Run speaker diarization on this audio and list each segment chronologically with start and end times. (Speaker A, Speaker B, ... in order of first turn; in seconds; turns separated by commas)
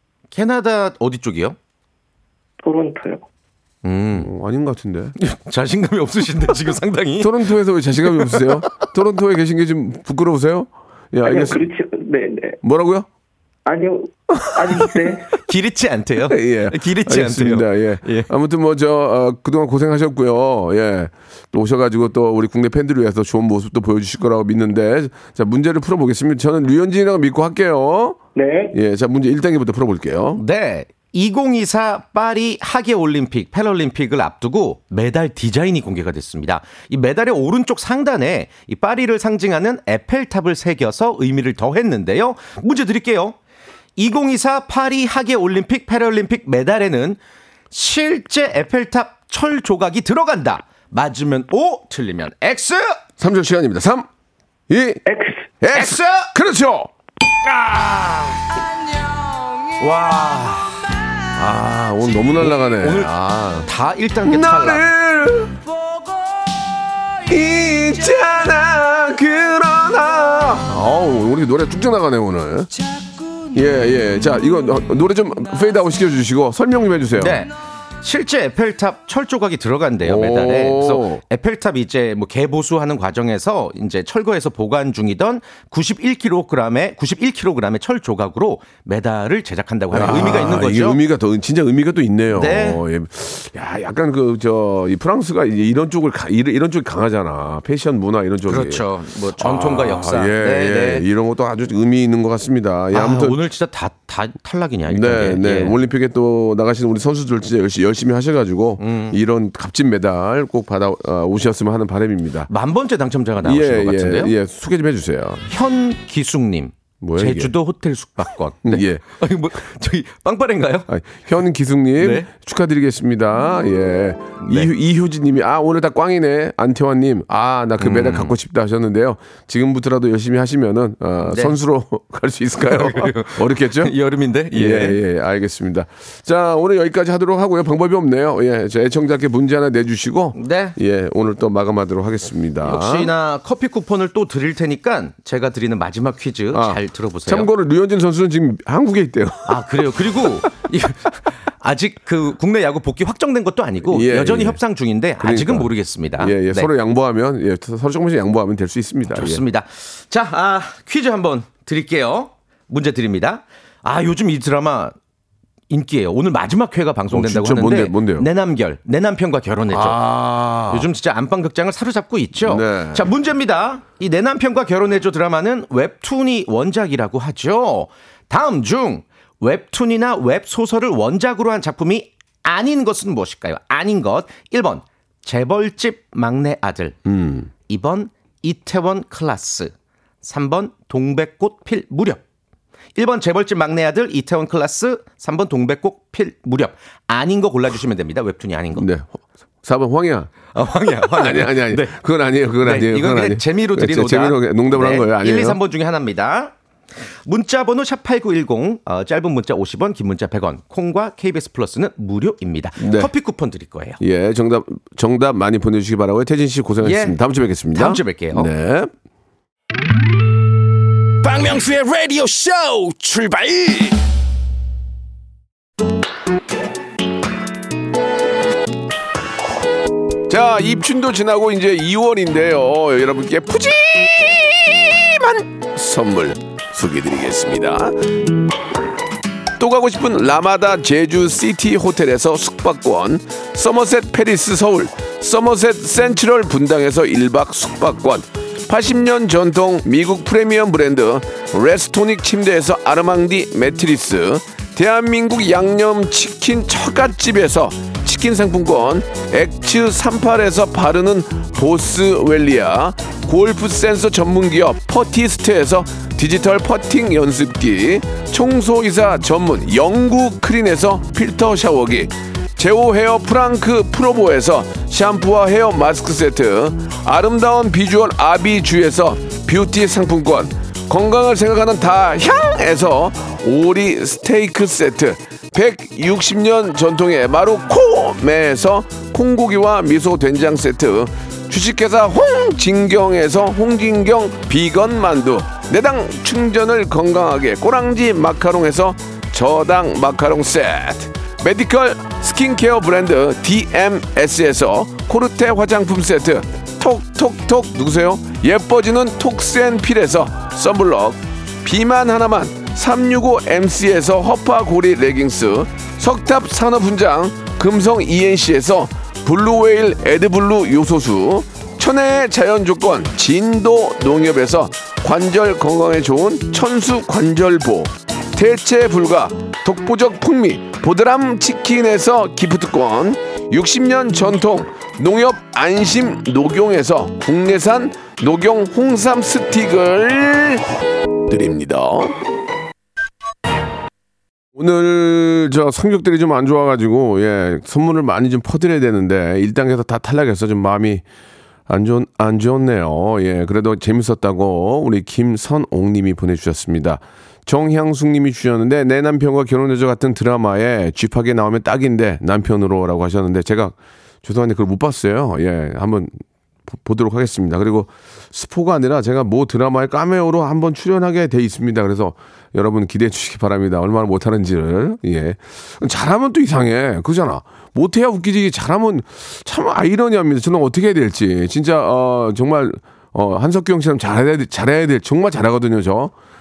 Speaker A: 0.3-1.6, Speaker B: 2.6-3.2, Speaker A: 3.8-4.3, Speaker C: 4.1-5.2, Speaker A: 5.2-7.4, Speaker C: 7.2-11.7, Speaker A: 8.1-8.6, Speaker B: 11.2-12.6, Speaker C: 12.6-13.1, Speaker B: 13.7-15.3, Speaker C: 14.4-14.8, Speaker A: 15.4-18.3, Speaker C: 16.2-28.2, Speaker B: 28.4-28.8, Speaker C: 28.7-30.4, Speaker A: 30.4-43.4, Speaker A: 44.0-47.2, Speaker A: 47.7-53.0, Speaker C: 53.2-54.1, Speaker C: 54.7-55.0, Speaker B: 55.0-55.5, Speaker C: 55.6-56.9, Speaker A: 55.7-56.3, Speaker C: 57.5-58.3, Speaker A: 59.8-60.8, Speaker C: 61.4-63.7, Speaker A: 62.4-64.8, Speaker C: 64.2-65.6, Speaker C: 67.2-72.7, Speaker C: 73.5-77.5, Speaker A: 77.2-91.0, Speaker C: 80.0-81.2, Speaker C: 89.9-98.9, Speaker A: 92.3-92.8, Speaker A: 98.5-101.0, Speaker C: 99.4-103.4, Speaker A: 102.9-105.8, Speaker C: 104.9-112.5, Speaker A: 108.8-109.2, Speaker A: 112.5-114.3, Speaker C: 113.4-115.5, Speaker A: 115.5-120.9, Speaker C: 117.0-117.5, Speaker C: 118.7-119.0, Speaker C: 120.9-133.9, Speaker A: 122.0-122.3, Speaker A: 124.4-124.7, Speaker A: 127.8-128.3, Speaker A: 131.2-131.6, Speaker A: 132.7-135.0, Speaker C: 134.5-143.1, Speaker A: 140.3-140.8, Speaker A: 142.6-147.5, Speaker C: 146.5-150.5, Speaker A: 149.5-156.7, Speaker C: 153.9-154.6, Speaker C: 155.2-159.4, Speaker A: 159.2-164.9, Speaker A: 165.7-170.0, Speaker C: 167.1-168.3, Speaker C: 169.7-170.9, Speaker A: 170.7-187.0, Speaker C: 172.4-173.1, Speaker C: 187.1-187.5, Speaker A: 187.7-189.7, Speaker A: 190.2-192.2, Speaker A: 193.0-198.9, Speaker C: 198.8-200.3, Speaker A: 200.5-202.0, Speaker C: 201.1-205.6, Speaker A: 202.6-206.6, Speaker A: 207.3-214.0, Speaker C: 212.8-213.1, Speaker C: 214.0-218.9, Speaker A: 216.8-217.2, Speaker A: 217.7-218.5, Speaker D: 221.2-224.0, Speaker C: 230.3-238.0, Speaker C: 239.6-340.7, Speaker C: 341.3-342.2, Speaker C: 344.6-351.0, Speaker C: 351.7-366.1, Speaker C: 366.7-386.1